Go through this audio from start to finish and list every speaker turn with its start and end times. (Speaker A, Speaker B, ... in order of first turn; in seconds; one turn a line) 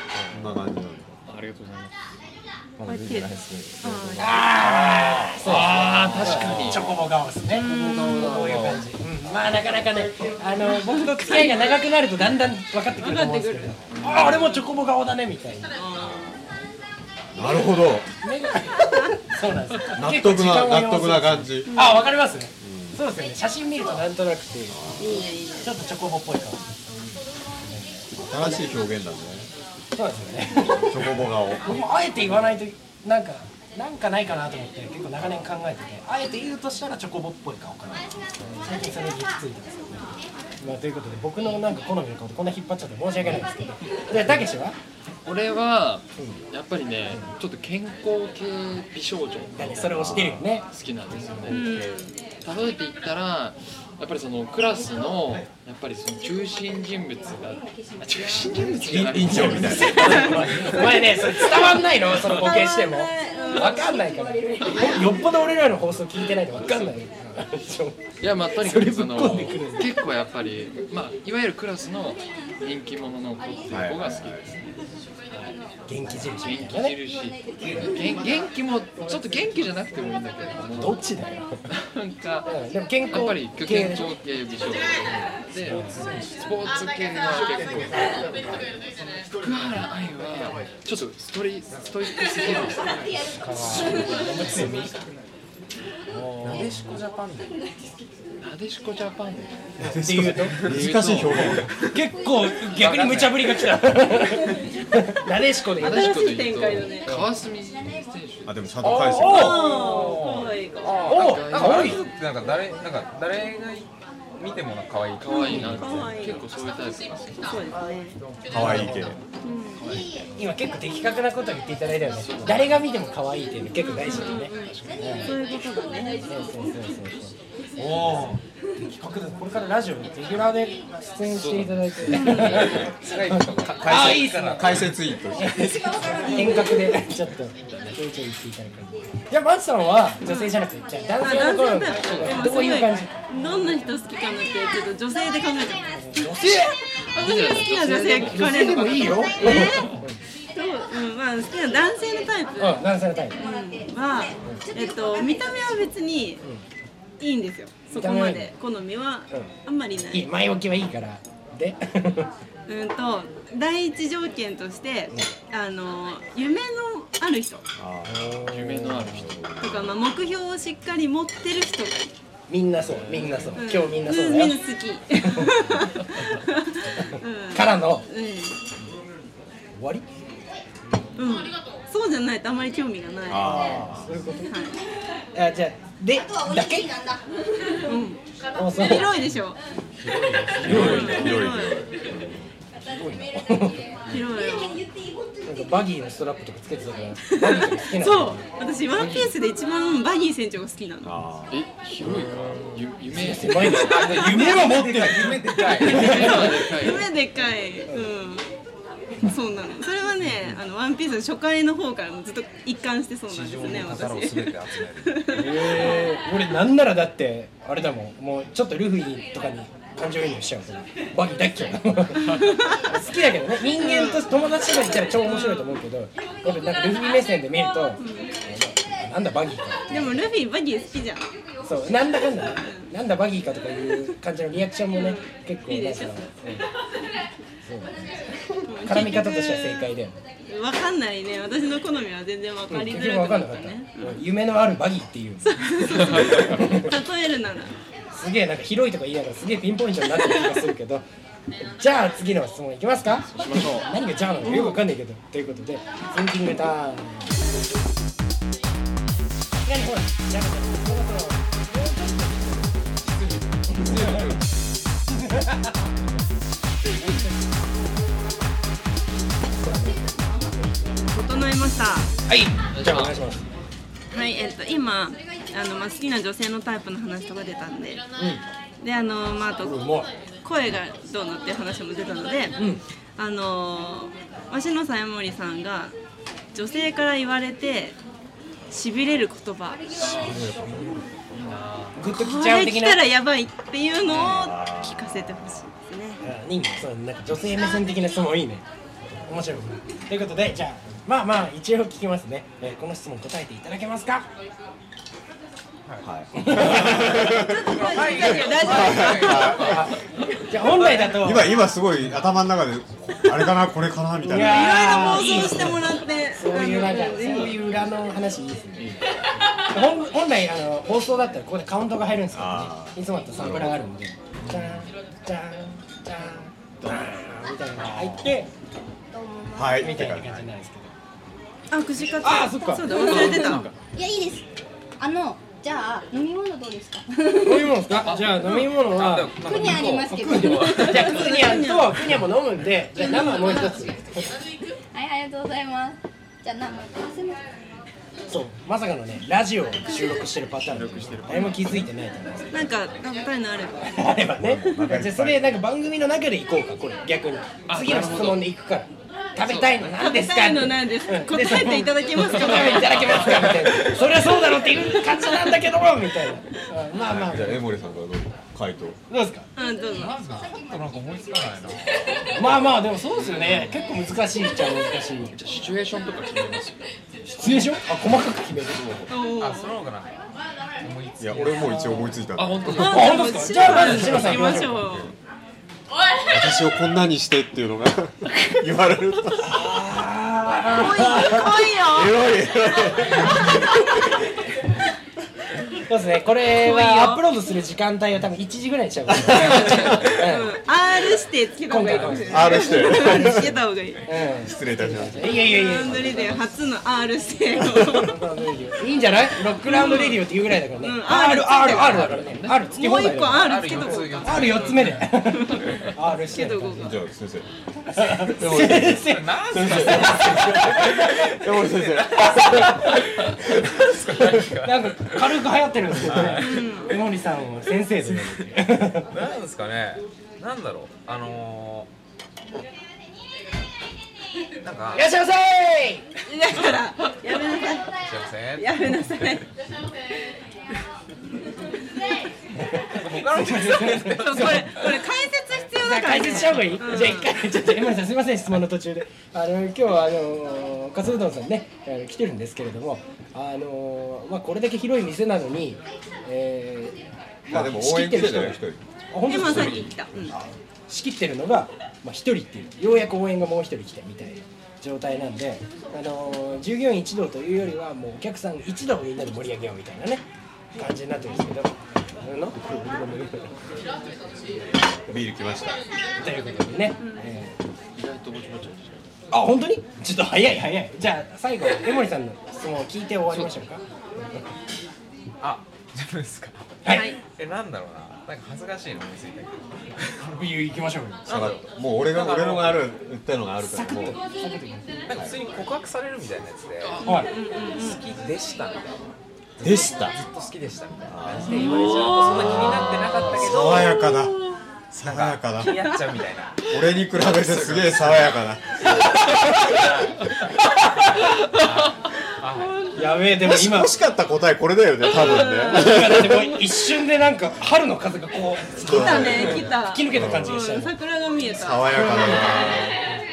Speaker A: 0.1-0.5
Speaker B: 0.3-1.2
Speaker C: 1.3-1.9
Speaker A: 2.8-7.0
Speaker D: 2.9-4.5
Speaker E: 4.2-15.8
Speaker C: 5.4-7.0
Speaker D: 7.5-8.5
Speaker A: 7.6-8.8
Speaker D: 10.6-11.7
Speaker D: 13.0-14.7
Speaker C: 13.9-14.4
Speaker D: 15.7-16.4
Speaker B: 17.3-18.1
Speaker E: 18.2-25.0
Speaker B: 19.9-21.8
Speaker D: 21.7-22.1
Speaker B: 22.6-23.0
Speaker B: 24.7-25.2
Speaker D: 25.0-25.8
Speaker E: 25.6-26.7
Speaker E: 27.6-28.6
Speaker B: 28.2-29.5
Speaker E: 29.9-44.8
Speaker B: 30.6-31.8
Speaker C: 45.2-60.8
Speaker E: 46.2-46.4
Speaker E: 49.5-50.6
Speaker B: 49.9-50.4
Speaker D: 51.5-52.1
Speaker B: 58.6-60.8
Speaker E: 59.0-70.0
Speaker D: 62.2-64.0
Speaker C: 68.2-74.7
Speaker B: 73.7-74.5
Speaker C: 75.3-75.6
Speaker E: 75.9-77.0
Speaker C: 76.2-81.0
Speaker E: 80.8-81.6
Speaker C: 81.7-82.5
Speaker E: 82.4-84.2
Speaker C: 83.1-88.8
Speaker E: 85.6-86.1
Speaker A: 85.7-86.2
Speaker C: 89.4-94.6
Speaker E: 93.4-94.9
Speaker A: 93.4-94.8
Speaker E: 96.1-97.0
Speaker A: 96.2-97.6
Speaker C: 98.4-99.7
Speaker B: 99.8-101.7
Speaker E: 99.8-100.6
Speaker A: 99.8-102.1
Speaker C: 100.6-101.7
Speaker E: 101.7-106.1
Speaker A: 102.6-103.8
Speaker C: 105.8-108.6
Speaker D: 105.8-107.2
Speaker B: 108.5-109.7
Speaker A: 108.8-116.2
Speaker E: 109.0-109.8
Speaker D: 109.2-111.1
Speaker C: 111.0-112.1
Speaker E: 111.0-112.0
Speaker C: 115.2-117.6
Speaker D: 115.3-116.5
Speaker D: 117.4-118.2
Speaker A: 118.3-119.1
Speaker B: 118.5-119.2
Speaker E: 118.5-119.1
Speaker D: 119.4-119.8
Speaker C: 119.8-120.1
Speaker E: 120.3-125.3
Speaker C: 122.1-122.8
Speaker D: 123.8-126.3
Speaker C: 124.0-125.2
Speaker E: 126.2-143.1
Speaker C: 131.3-132.6
Speaker D: 132.1-132.7
Speaker A: 132.4-135.2
Speaker B: 133.8-136.0
Speaker C: 136.2-136.7
Speaker C: 137.7-137.9
Speaker D: 140.2-140.6
Speaker D: 141.2-152.8
Speaker C: 142.0-142.7
Speaker E: 145.9-146.8
Speaker C: 147.2-149.1
Speaker E: 148.2-150.2
Speaker E: 152.6-153.4
Speaker D: 153.3-156.4
Speaker D: 157.2-160.3
Speaker E: 157.9-158.5
Speaker E: 160.1-162.3
Speaker D: 162.7-167.6
Speaker B: 167.8-170.0
Speaker E: 168.1-169.3
Speaker C: 168.4-169.4
Speaker D: 169.6-172.1
Speaker E: 172.5-174.6
Speaker C: 172.9-173.5
Speaker D: 173.6-178.6
Speaker E: 175.2-175.8
Speaker E: 177.5-178.1
Speaker E: 179.7-180.0
Speaker D: 181.2-183.8
Speaker B: 183.3-184.3
Speaker E: 183.3-184.5
Speaker D: 184.5-184.8
Speaker E: 185.3-187.2
Speaker D: 187.8-188.2
Speaker E: 188.5-189.1
Speaker D: 188.7-189.6
Speaker A: 190.0-191.4
Speaker B: 190.5-192.5
Speaker E: 190.6-191.3
Speaker D: 190.7-191.8
Speaker E: 192.8-193.9
Speaker D: 194.1-194.8
Speaker E: 195.4-198.5
Speaker D: 197.4-201.2
Speaker C: 198.9-199.3
Speaker B: 201.0-202.6
Speaker C: 201.5-204.2
Speaker E: 203.1-206.7
Speaker D: 203.6-204.2
Speaker A: 203.8-206.5
Speaker D: 205.7-208.5
Speaker C: 205.8-207.1
Speaker D: 209.2-216.1
Speaker A: 213.3-215.4
Speaker E: 215.3-230.2
Speaker D: 222.2-222.8
Speaker D: 223.8-224.2
Speaker D: 225.1-225.8
Speaker D: 228.0-228.3
Speaker D: 229.9-231.3
Speaker E: 231.6-236.7
Speaker D: 232.6-232.9
Speaker D: 234.9-236.2
Speaker E: 237.6-240.2
Speaker D: 238.7-239.9
Speaker D: 240.5-244.2
Speaker E: 242.7-247.0
Speaker D: 245.5-247.8
Speaker E: 248.1-251.0
Speaker D: 250.2-250.6
Speaker E: 251.6-257.3
Speaker C: 253.2-253.9
Speaker D: 254.4-254.8
Speaker E: 259.6-262.7
Speaker A: 263.1-264.4
Speaker E: 263.7-264.4
Speaker E: 265.1-265.9
Speaker E: 267.0-267.3
Speaker E: 269.5-270.2
Speaker D: 271.1-272.1
Speaker E: 272.3-273.5
Speaker C: 272.7-273.1
Speaker D: 274.1-278.0
Speaker E: 278.2-278.4
Speaker D: 278.8-279.9
Speaker E: 279.6-280.1
Speaker D: 280.4-282.6
Speaker E: 282.6-282.8
Speaker D: 283.2-285.9
Speaker D: 286.5-288.0
Speaker D: 288.7-290.2
Speaker C: 290.0-292.0
Speaker B: 290.1-291.1
Speaker E: 291.9-293.0
Speaker D: 292.1-296.2
Speaker B: 294.0-295.7
Speaker E: 296.2-298.6
Speaker E: 299.2-304.3
Speaker B: 306.0-309.9
Speaker E: 306.3-307.4
Speaker A: 306.7-310.0
Speaker D: 307.2-309.8
Speaker E: 309.6-311.5
Speaker A: 310.6-311.3
Speaker B: 311.1-315.1
Speaker E: 314.2-319.0
Speaker D: 314.2-317.6
Speaker E: 319.7-328.5
Speaker B: 322.3-323.8
Speaker F: 329.1-329.8
Speaker B: 329.5-330.4
Speaker E: 329.7-330.9
Speaker D: 331.7-333.7
Speaker E: 332.2-333.0
Speaker A: 332.9-333.7
Speaker C: 332.9-333.6
Speaker F: 333.9-334.5
Speaker F: 335.0-337.1
Speaker E: 337.3-344.4
Speaker C: 338.1-338.4
Speaker A: 338.1-341.4
Speaker F: 339.4-340.7
Speaker D: 340.8-342.1
Speaker D: 343.0-343.8
Speaker F: 344.9-347.4
Speaker E: 348.3-352.8
Speaker C: 350.7-351.8
Speaker D: 352.5-353.9
Speaker E: 353.8-367.6
Speaker B: 354.4-355.6
Speaker C: 357.7-358.4
Speaker C: 359.4-359.8
Speaker D: 359.9-363.5
Speaker C: 362.2-363.9
Speaker B: 367.0-369.0
Speaker E: 369.1-369.5
Speaker D: 369.6-370.2
Speaker A: 369.9-372.6
Speaker E: 372.3-375.3
Speaker C: 375.3-376.9
Speaker E: 377.3-379.1
Speaker C: 378.7-379.1
Speaker D: 379.1-379.8
Speaker A: 379.4-380.2
Speaker A: 380.8-382.3
Speaker B: 381.2-383.0
Speaker C: 382.3-384.2
Speaker E: 382.7-384.8
Speaker D: 382.7-385.1
Speaker B: 383.8-385.1
Speaker B: 386.3-389.6
Speaker E: 389.4-391.4
Speaker D: 390.7-392.2
Speaker B: 391.2-394.1
Speaker E: 395.8-400.6
Speaker D: 396.5-397.2
Speaker B: 399.1-400.1
Speaker D: 399.4-404.0
Speaker E: 401.7-403.4
Speaker B: 402.2-403.6
Speaker E: 404.0-406.4
Speaker B: 404.3-406.2
Speaker D: 405.3-408.2
Speaker B: 407.6-408.0
Speaker E: 407.9-416.9
Speaker D: 409.6-410.3
Speaker D: 410.8-412.2
Speaker C: 411.6-412.8
Speaker D: 412.7-414.6
Speaker A: 413.1-415.9
Speaker D: 415.1-417.0
Speaker B: 416.7-424.4
Speaker E: 417.9-421.4
Speaker A: 418.5-426.7
Speaker E: 424.6-429.1
Speaker D: 426.4-427.0
Speaker A: 428.1-428.5
Speaker A: 429.1-431.9
Speaker A: 434.6-435.1
Speaker E: 434.9-436.1
Speaker D: 436.2-438.0
Speaker A: 437.9-439.4
Speaker D: 438.6-439.5
Speaker E: 442.5-445.1
Speaker A: 442.9-444.8
Speaker D: 444.1-447.3
Speaker E: 445.8-459.9
Speaker B: 457.5-458.8
Speaker D: 459.3-460.4
Speaker B: 459.4-460.5
Speaker E: 460.9-473.5
Speaker B: 475.1-475.8
Speaker E: 476.2-477.6
Speaker D: 477.0-477.3
Speaker C: 477.9-479.1
Speaker E: 479.3-484.5
Speaker C: 483.3-483.6
Speaker A: 485.4-490.4
Speaker E: 486.8-487.1
Speaker D: 486.9-487.2
Speaker E: 490.2-491.3
Speaker A: 491.2-492.9
Speaker B: 491.3-494.2
Speaker E: 493.6-495.1
Speaker A: 495.1-497.2
Speaker B: 495.1-495.4
Speaker D: 497.0-498.0
Speaker E: 497.0-497.3
Speaker A: 497.7-499.0
Speaker A: 499.6-504.1
Speaker B: 499.6-500.2
Speaker B: 501.1-504.4
Speaker D: 501.5-502.8
Speaker D: 503.7-504.3
Speaker A: 504.9-508.5
Speaker B: 504.9-505.8
Speaker B: 506.7-510.1
Speaker A: 509.6-510.3
Speaker A: 511.4-512.8
Speaker E: 512.9-514.0
Speaker B: 513.4-516.6
Speaker D: 515.0-516.0
Speaker E: 515.4-520.9
Speaker B: 518.8-520.6
Speaker D: 518.9-522.6
Speaker B: 521.4-523.0
Speaker E: 521.9-522.7